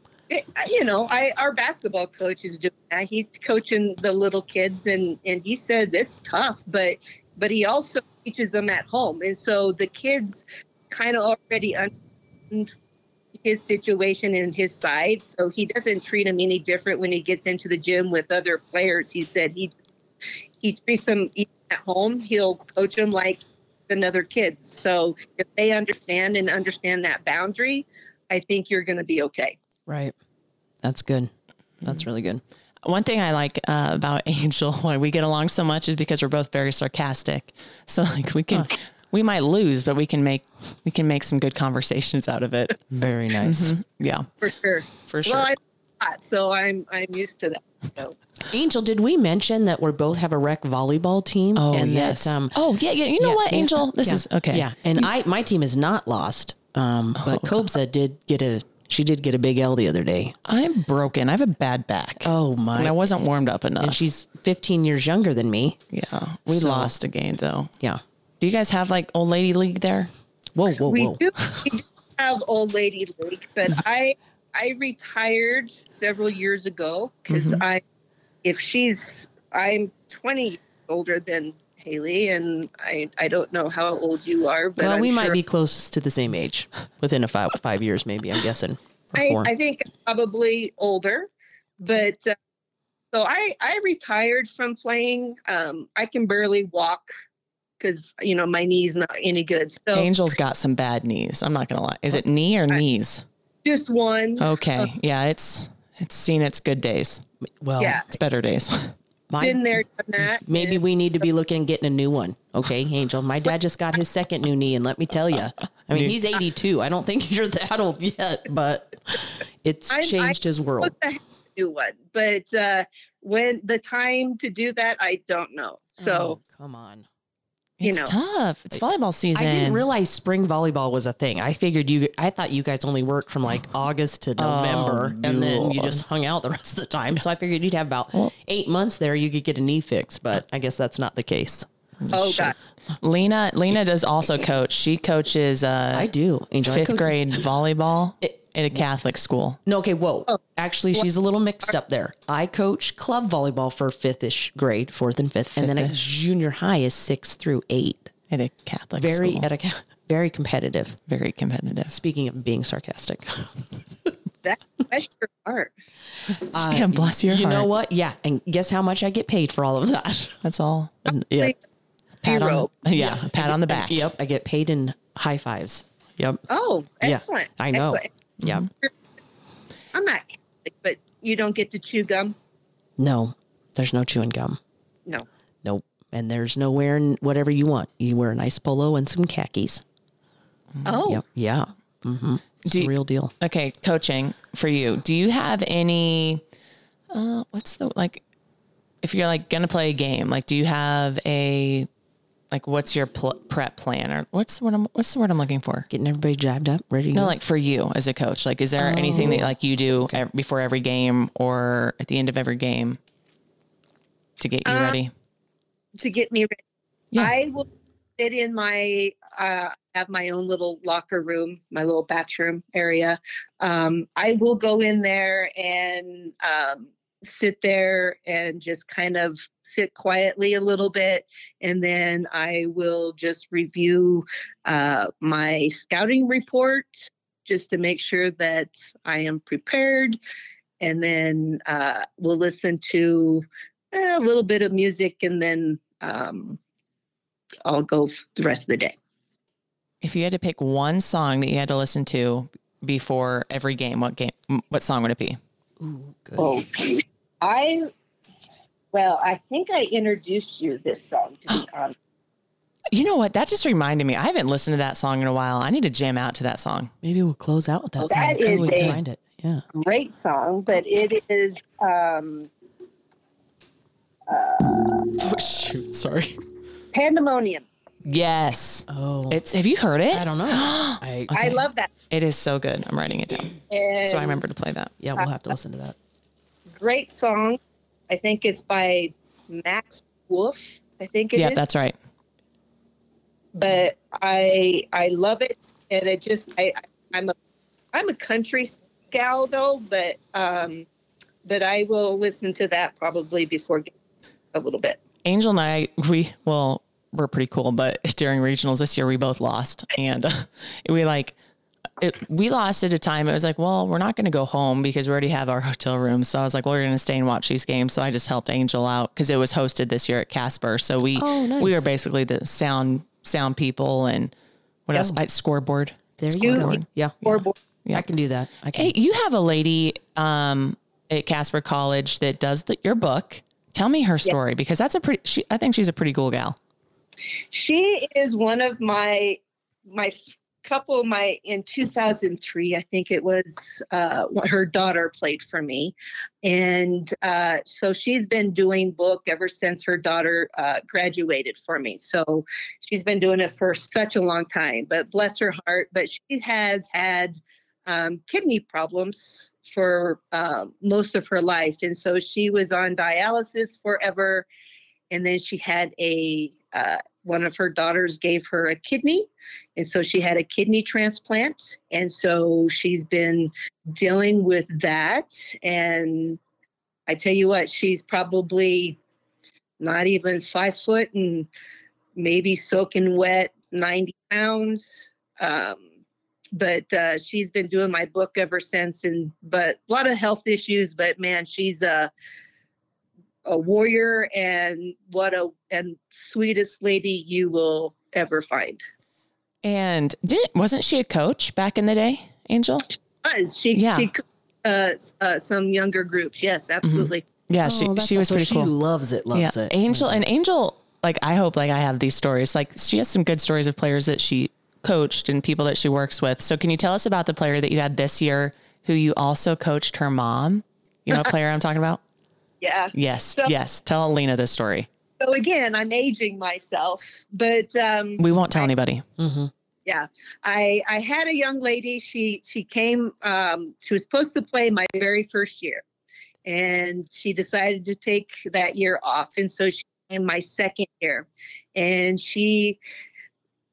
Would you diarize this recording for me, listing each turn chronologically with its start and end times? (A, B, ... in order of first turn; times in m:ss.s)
0:00.3-0:11.9 A
0:13.4-0:19.7 A
0:20.6-0:29.6 A
0:29.9-0:30.1 B
0:30.8-0:32.4 B
0:32.8-0:42.8 C
0:42.9-0:43.7 B
0:43.4-0:44.3 C
0:44.4-0:48.2 A
0:45.0-0:45.5 C
0:48.5-0:52.7 B
0:51.6-0:55.0 C
0:53.2-1:00.4 B
0:57.2-0:57.6 C
1:00.4-1:04.0 C
1:02.2-1:03.0 B
1:03.8-1:05.8 B
1:05.9-1:07.7 C
1:06.5-1:06.9 B
1:08.4-1:10.1 C
1:10.5-1:11.3 B
1:10.9-1:17.8 A
1:17.3-1:17.6 C
1:18.4-1:25.4 A
1:24.8-1:29.5 B
1:29.1-1:32.4 A
1:33.1-1:37.1 A
1:37.8-1:40.1 A
1:39.9-1:43.2 C
1:43.6-1:44.8 A
1:44.4-1:47.2 C
1:47.6-1:48.0 B
1:47.8-1:48.0 A
1:48.1-1:48.9 C
1:49.3-2:00.9 B
1:49.4-1:50.8 A
1:55.9-1:56.2 C
1:59.9-2:06.4 A
2:06.0-2:07.1 B
2:07.8-2:09.8 C
2:07.8-2:08.1 A
2:09.3-2:21.7 B
2:14.4-2:16.0 C
2:22.0-2:26.1 C
2:22.1-2:22.5 A
2:25.9-2:27.4 B
2:26.6-2:29.6 C
2:28.2-2:28.8 B
2:29.6-2:38.1 B
2:35.6-2:36.0 C
2:38.3-2:39.5 C
2:39.0-2:41.0 B
2:41.1-2:41.9 C
2:41.9-2:43.8 B
2:44.4-2:45.7 A
2:46.3-2:50.4 B
2:46.6-2:47.7 C
2:50.4-2:51.1 C
2:51.1-2:51.5 B
2:51.3-2:51.6 A
2:52.2-2:54.1 C
2:52.2-2:53.2 A
2:53.0-2:56.4 B
2:56.5-2:58.1 A
2:57.0-2:58.7 B
2:58.4-2:58.7 C
2:59.9-3:02.3 A
3:03.0-3:04.6 B
3:05.6-3:09.8 B
3:10.8-3:11.2 A
3:11.0-3:13.3 B
3:12.6-3:16.4 C
3:17.1-3:18.2 C
3:19.0-3:21.9 C
3:22.5-3:25.9 C
3:25.9-3:27.4 B
3:27.1-3:33.0 C
3:28.8-3:30.2 B
3:34.4-3:35.1 C
3:34.6-3:35.0 A
3:36.0-3:36.6 A
3:37.2-4:00.2 A
4:00.8-4:06.6 A
4:07.6-4:09.0 A
4:10.0-4:15.4 C
4:15.8-4:16.6 B
4:16.4-4:17.9 A
4:18.9-4:21.9 A
4:22.9-4:26.9 C
4:27.0-4:29.6 B
4:28.0-4:29.0 A
4:29.7-4:32.5 A
4:34.3-4:34.8 A
4:35.2-4:36.3 C
4:36.9-4:37.6 A
4:38.0-4:41.6 C
4:38.9-4:39.4 B
4:40.1-4:41.4 B
4:41.3-4:41.9 A
4:42.1-4:44.9 C
4:43.7-4:44.4 A
4:45.0-4:46.0 B
4:46.8-4:51.8 A
4:51.3-4:51.9 C
4:53.5-4:57.3 A
4:57.9-5:00.9 A
5:01.4-5:03.9 A
5:04.5-5:05.0 A
5:05.2-5:11.4 C
5:12.0-5:24.3 C
5:21.2-5:21.9 B
5:24.9-5:28.1 C
5:24.9-5:25.2 B
5:26.2-5:27.2 B
5:26.4-5:27.5 A
5:27.9-5:28.9 B
5:28.7-5:36.6 C
5:37.5-6:04.5 A
6:05.1-6:16.4 A
6:17.1-6:19.0 A
6:19.8-6:21.5 A
6:22.2-6:25.8 A
6:26.5-6:32.1 A
6:33.4-6:38.8 A
6:39.6-6:42.9 C
6:43.2-6:47.2 A
6:43.7-6:44.1 C
6:46.8-6:48.7 C
6:47.6-6:50.2 B
6:49.3-7:02.0 C
7:02.6-7:03.5 A
7:02.9-7:04.9 C
7:05.2-7:08.7 A
7:08.2-7:09.0 C
7:09.2-7:09.5 B
7:09.8-7:15.8 A
7:16.4-7:22.8 A